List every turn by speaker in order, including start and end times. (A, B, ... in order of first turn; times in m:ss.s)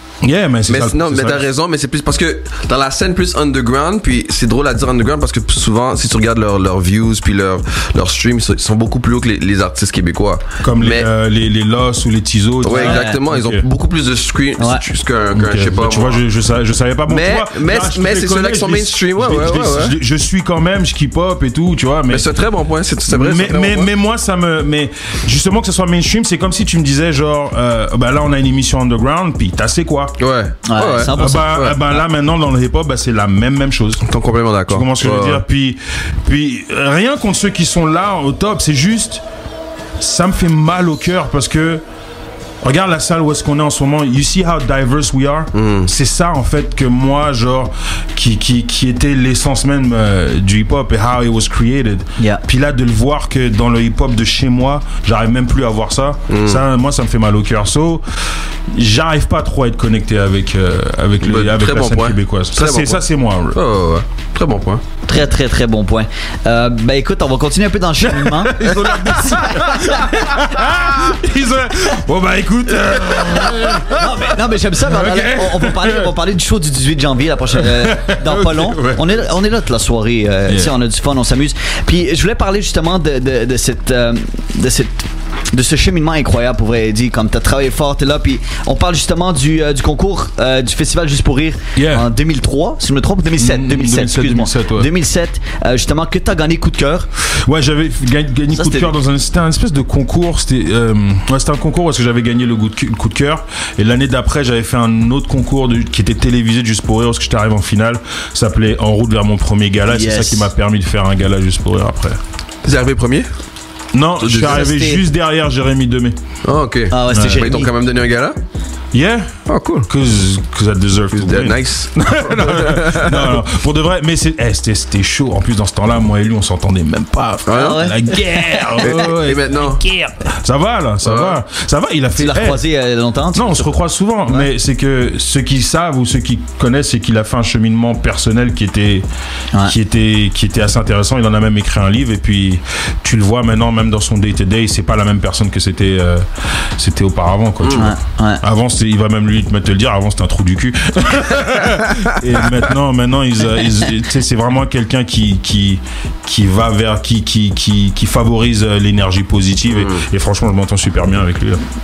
0:00.2-0:01.5 A
0:00.7-0:11.1 B
0:10.6-0:13.6 A
0:12.6-0:16.2 B
0:12.7-0:13.2 C
0:14.6-0:14.8 C
0:15.3-0:22.3 A
0:17.1-0:20.0 B
0:22.1-0:23.9 B
0:23.1-0:30.2 A
0:30.2-0:31.8 B
0:30.7-0:31.6 C
0:31.1-0:34.0 A
0:34.0-0:35.4 B
0:34.7-0:39.2 A
0:40.0-0:41.8 A
0:42.6-0:58.0 A
0:45.5-0:45.9 B
0:56.3-0:56.6 B
0:58.7-1:03.6 A
1:01.2-1:04.8 B
1:05.1-1:08.6 C
1:08.1-1:16.1 A
1:08.6-1:09.1 B
1:09.1-1:10.4 C
1:13.8-1:37.1 C
1:17.5-1:19.2 A
1:20.5-1:20.7 A
1:31.8-1:32.1 A
1:33.4-1:34.9 A
1:37.2-1:52.2 A
1:38.5-1:38.9 C
1:49.9-1:50.5 C
1:52.6-1:53.3 B
1:53.9-1:56.2 A
1:54.2-1:54.6 B
1:54.3-1:55.0 C
1:56.4-1:58.4 B
1:56.9-1:57.7 C
1:57.1-1:57.5 A
1:58.9-2:12.6 A
1:59.5-1:59.9 B
2:01.1-2:03.4 B
2:07.5-2:07.9 B
2:07.5-2:08.7 C
2:08.8-2:09.8 B
2:11.0-2:11.4 B
2:12.2-2:13.8 C
2:13.3-2:19.1 A
2:19.6-2:41.6 A
2:27.6-2:27.9 B
2:27.7-2:28.4 C
2:39.7-2:40.0 B